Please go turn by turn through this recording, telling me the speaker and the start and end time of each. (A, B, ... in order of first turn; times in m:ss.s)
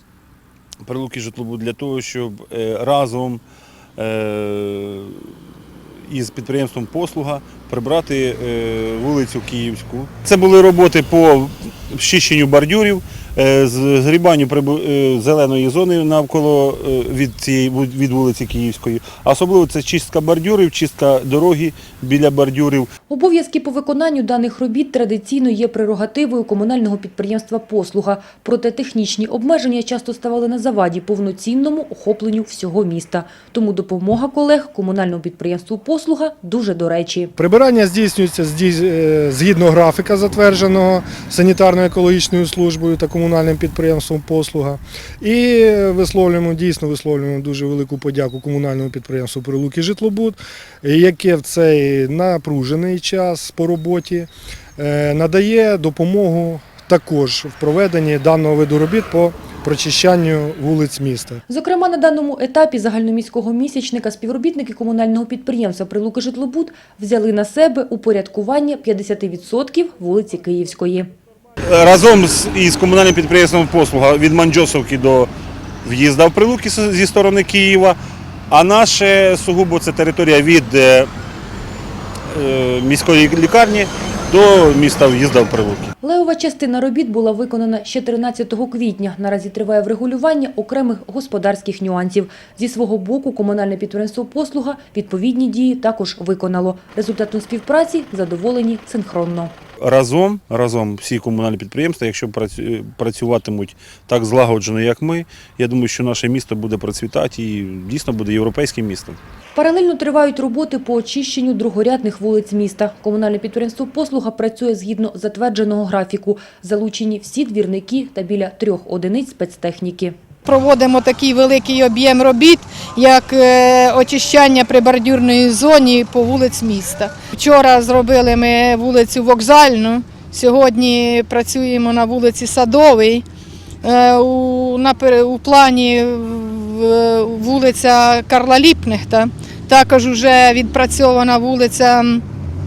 0:00.8-0:03.4 A
0:04.0-0:05.4 A
0:06.0-0:22.9 A
0:23.1-0:37.3 B
0:37.4-1:01.4 C
1:01.5-1:11.1 B
1:11.6-1:15.3 A
1:15.8-1:18.0 A
1:18.5-1:21.1 A
1:22.3-1:25.9 A
1:26.0-1:39.5 B
1:39.8-1:49.2 A
1:49.6-2:00.2 B
2:00.5-2:13.2 D
2:13.8-2:22.2 D